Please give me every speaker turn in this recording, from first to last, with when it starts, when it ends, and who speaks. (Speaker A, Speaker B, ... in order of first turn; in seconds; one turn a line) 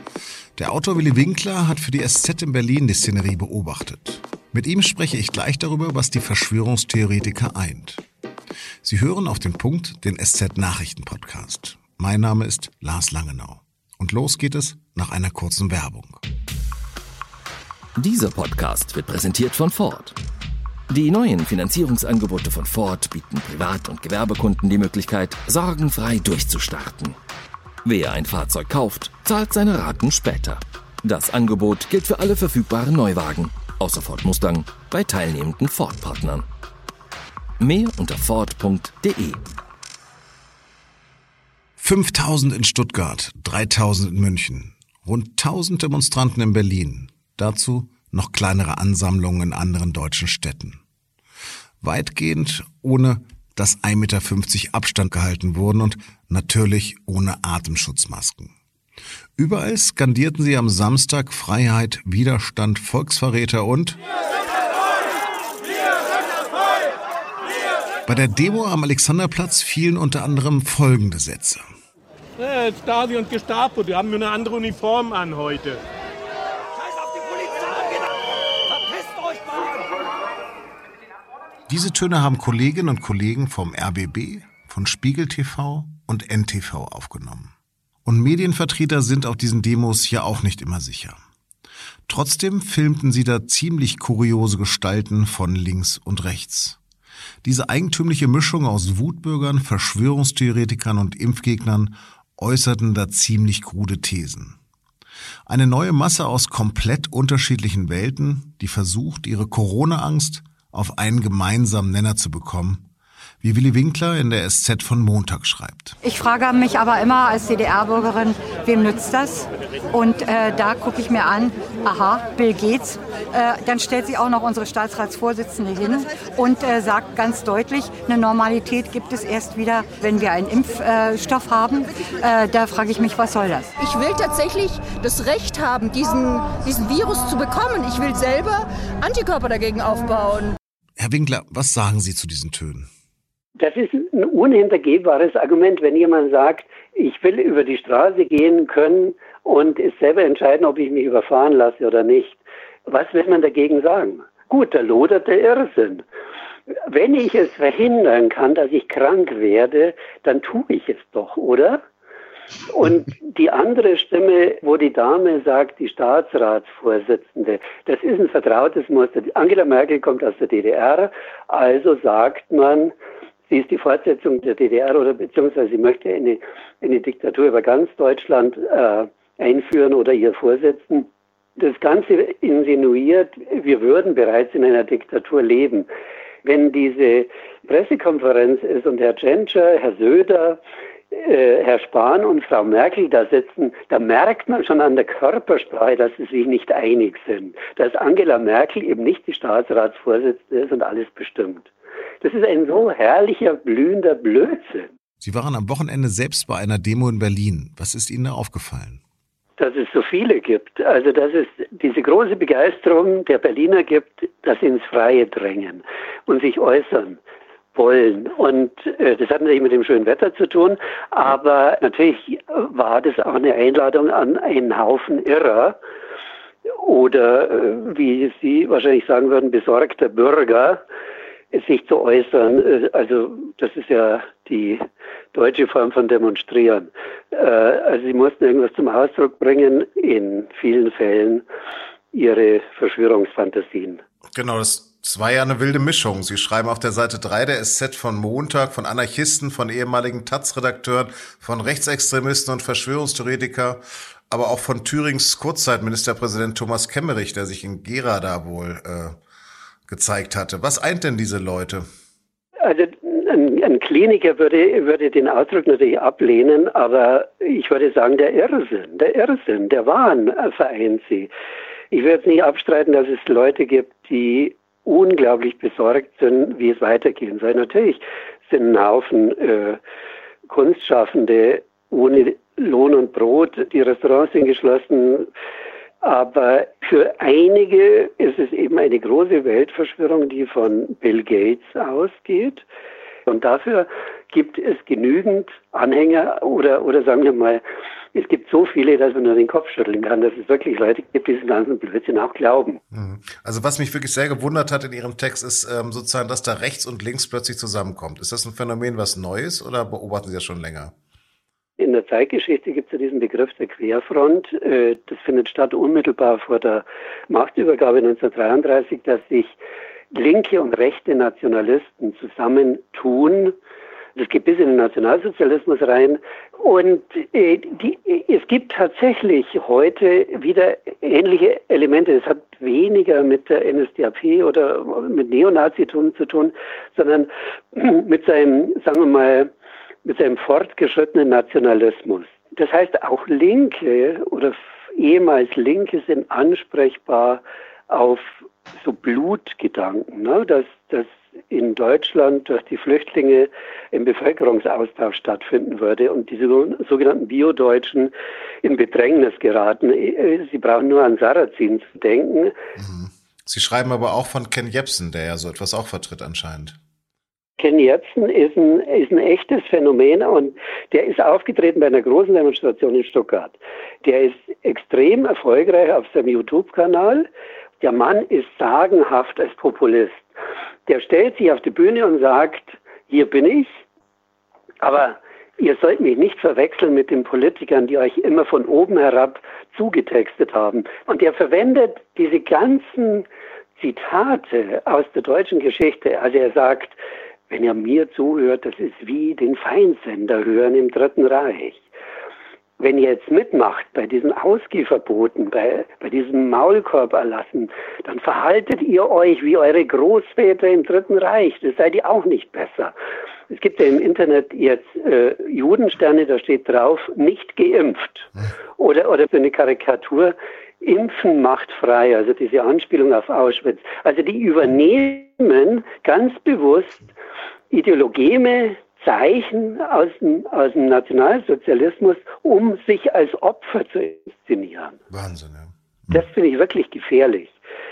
Speaker A: 0.6-8.0
Speaker A: 8.8-16.2
Speaker B: 18.0-20.1
Speaker B: 20.9-27.1
Speaker B: 27.9-36.4
Speaker B: 37.6-39.4
Speaker A: 41.8-50.8
Speaker A: 51.8-58.5
Speaker A: 59.4-64.0
Speaker A: 68.1-71.6
Speaker C: 72.4-75.8
Speaker A: 81.7-87.5
Speaker A: 88.0-91.2
Speaker A: 92.1-96.8
Speaker A: 97.4-104.6
Speaker A: 105.5-112.8
Speaker A: 113.4-116.0
Speaker D: 116.0-133.7
Speaker E: 133.8-140.6
Speaker A: 141.0-142.9
Speaker F: 143.6-156.0
Speaker F: 156.8-161.8
Speaker F: 162.7-172.9
Speaker F: 173.5-185.9
Speaker F: 186.4-190.6
Speaker F: 191.1-201.7
Speaker F: 202.2-204.9
Speaker A: 205.2-209.0
Speaker F: 209.6-217.2
Speaker F: 217.7-225.8
Speaker F: 226.7-230.8
Speaker F: 231.5-234.8
Speaker F: 235.3-241.4
Speaker F: 242.1-244.0
Speaker A: 244.3-259.1
Speaker A: 259.9-261.8
Speaker F: 262.6-271.3
Speaker F: 271.9-279.8
Speaker F: 280.4-285.3
Speaker F: 286.0-292.6
Speaker F: 293.2-297.6
Speaker F: 298.1-302.8
Speaker A: 302.9-310.9
Speaker F: 311.8-319.6
Speaker F: 320.1-323.6
Speaker F: 324.1-339.5
Speaker F: 340.1-358.1
Speaker F: 358.6-362.5
Speaker A: 362.8-366.8
Speaker F: 367.6-377.3
Speaker F: 377.8-380.2
Speaker F: 380.9-383.8
Speaker F: 384.8-397.0
Speaker F: 397.5-401.8
Speaker F: 402.8-412.9
Speaker F: 413.5-427.1
Speaker F: 427.7-435.0
Speaker A: 435.1-435.7
Speaker F: 436.1-437.6